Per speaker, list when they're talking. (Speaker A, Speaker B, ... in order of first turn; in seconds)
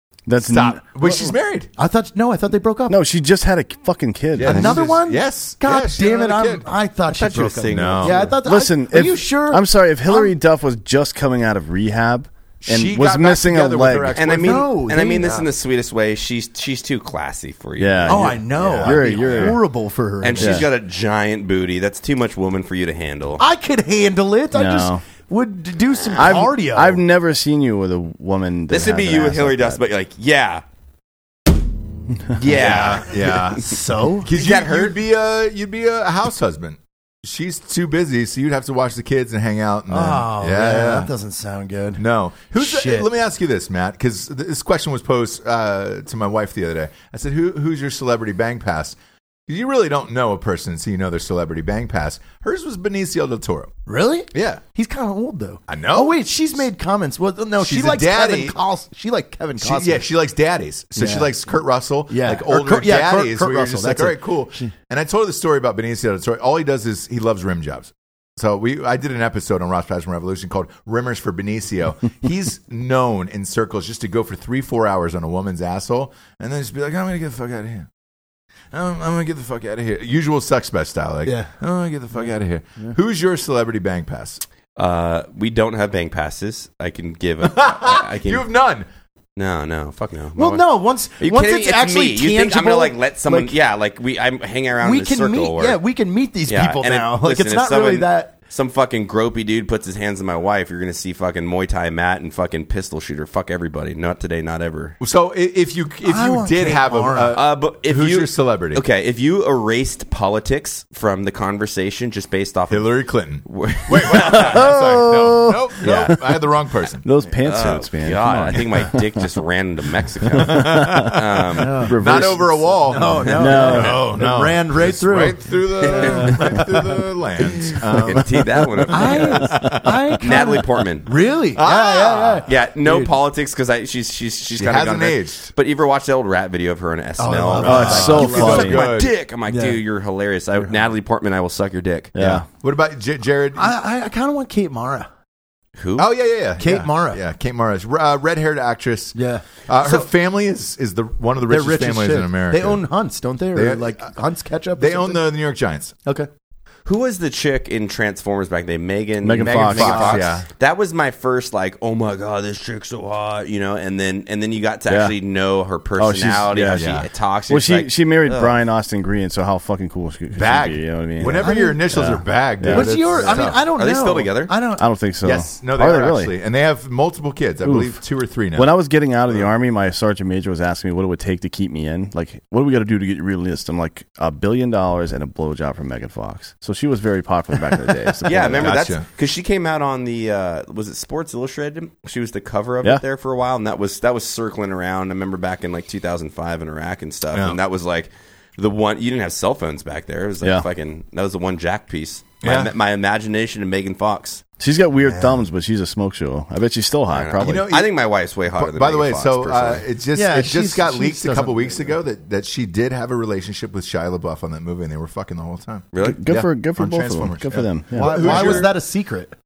Speaker A: 0.3-1.3, 2.9-4.8, 8.4-14.2, 17.8-19.6, 20.4-20.7, 24.5-25.0, 26.2-29.8, 114.2-116.4, 117.0-119.3, 120.3-121.2, 121.8-122.8, 123.3-124.1, 137.6-138.9, 142.2-142.5, 159.2-160.2, 164.9-165.2, 166.0-167.0, 167.5-173.5, 174.8-176.3, 177.6-178.0, 178.6-188.8, 204.6-207.7, 216.0-218.7
Speaker B: 0.4-1.7, 4.4-6.7, 7.7-8.3, 12.6-14.7, 18.6-19.6, 32.5-41.1, 42.0-49.0, 49.5-53.7, 54.3-54.6, 55.7-56.2, 57.6-58.6, 59.6-77.9, 78.7-84.4, 87.4-88.9, 105.0-108.8, 112.7-117.0, 120.4-130.0, 131.5-132.5, 134.5-135.5, 137.6-139.1, 142.2-143.7, 146.0-152.8, 153.5-154.1, 154.8-155.9, 159.4-160.5, 166.7-167.1, 170.3-173.6, 175.2-178.8, 188.3-189.1, 197.3-197.6, 202.4-202.7, 205.1-205.4, 207.4-208.0, 208.5-218.8
Speaker C: 1.8-3.0, 4.4-10.3, 14.4-15.5, 18.1-20.7, 23.4-27.0, 33.6-34.3, 39.9-42.0, 42.6-43.1, 53.9-60.1, 61.0-61.3, 62.1-64.7, 81.2-81.5, 90.4-93.5, 94.8-98.3, 106.0-107.4, 121.6-122.0, 122.9-126.7, 128.9-133.1, 137.2-139.8, 143.6-145.1, 146.6-147.2, 149.2-149.4, 151.5-155.2, 171.3-171.8, 172.7-174.9, 210.2-211.9, 217.9-219.3
Speaker D: 7.1-8.3, 14.2-18.4, 20.2-23.4, 28.7-30.6, 32.3-33.6, 34.3-35.0, 84.8-88.5, 89.4-95.8, 96.5-105.0, 107.3-114.8, 115.8-116.1, 117.4-121.9, 125.8-126.7, 127.4-131.1, 132.5-142.4, 145.8-146.1, 149.8-150.1, 156.9-168.6, 173.7-174.5, 188.2-204.4, 207.1-209.8, 215.9-216.2